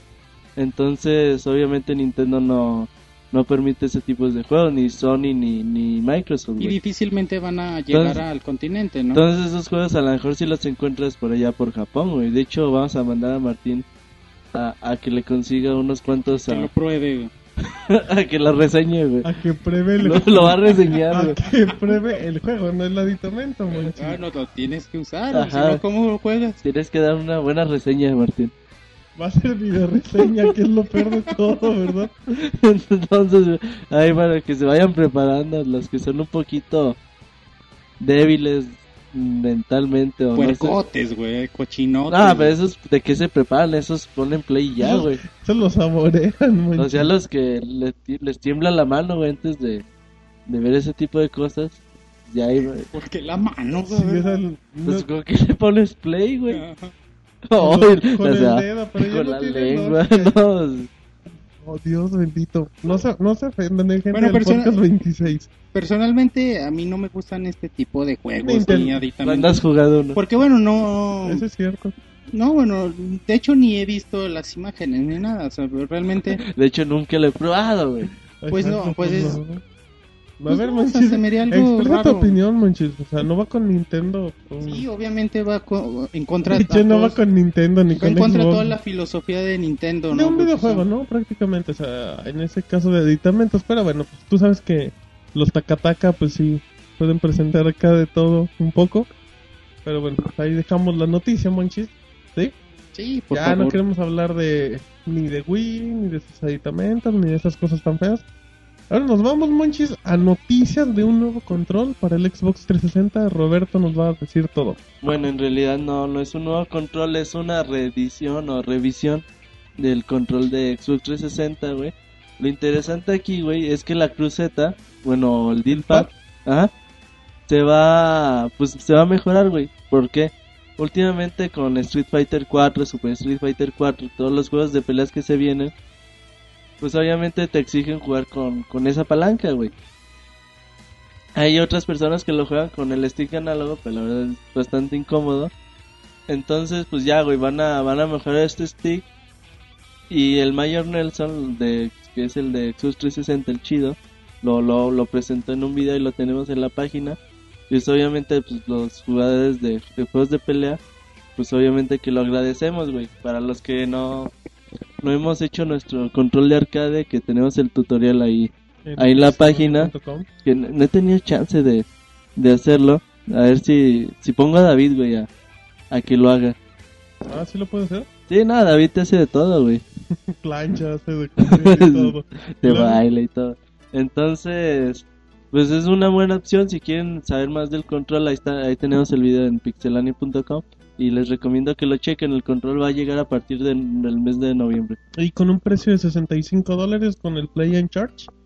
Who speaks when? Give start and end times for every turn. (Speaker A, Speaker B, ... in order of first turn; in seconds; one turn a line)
Speaker A: 0.6-6.8
Speaker B: 6.6-9.2
Speaker A: 7.9-8.2
Speaker A: 9.1-13.8
Speaker A: 14.5-16.7
Speaker B: 16.5-17.3
Speaker A: 17.6-19.3
Speaker C: 19.2-24.2
Speaker A: 20.0-21.4
Speaker B: 23.8-26.6
Speaker A: 25.3-25.8
Speaker A: 26.6-28.5
Speaker C: 29.2-32.1
Speaker A: 32.3-37.0
Speaker A: 38.0-40.8
Speaker B: 40.4-42.5
Speaker A: 42.1-45.2
Speaker C: 44.8-47.1
Speaker A: 46.8-49.9
Speaker A: 50.5-52.9
Speaker B: 52.9-54.2
Speaker C: 53.8-55.1
Speaker A: 54.9-56.6
Speaker B: 56.5-56.9
Speaker A: 57.5-60.9
Speaker C: 57.6-60.3
Speaker C: 61.6-65.5
Speaker B: 64.1-64.8
Speaker B: 65.7-69.6
Speaker C: 68.4-69.0
Speaker A: 69.2-70.2
Speaker B: 70.2-71.4
Speaker C: 71.2-71.9
Speaker B: 72.3-76.4
Speaker A: 76.4-78.1
Speaker C: 78.3-79.6
Speaker B: 78.5-79.4
Speaker C: 80.4-84.9
Speaker B: 80.5-82.4
Speaker B: 84.6-87.2
Speaker C: 86.5-88.8
Speaker B: 87.9-90.8
Speaker C: 90.1-99.1
Speaker C: 99.8-102.5
Speaker B: 103.0-103.8
Speaker C: 103.3-108.2
Speaker C: 108.9-114.8
Speaker A: 115.0-119.2
Speaker A: 119.8-126.7
Speaker C: 125.7-126.1
Speaker A: 127.5-135.7
Speaker A: 136.8-139.7
Speaker A: 141.4-145.5
Speaker A: 146.3-149.1
Speaker A: 150.1-157.2
Speaker A: 157.7-160.8
Speaker A: 161.4-164.3
Speaker A: 165.0-169.9
Speaker C: 168.8-170.3
Speaker A: 170.4-171.8
Speaker A: 172.4-175.3
Speaker A: 175.9-176.6
Speaker C: 177.2-178.1
Speaker A: 178.3-179.8
Speaker C: 180.2-183.0
Speaker A: 181.4-195.0
Speaker C: 195.2-198.3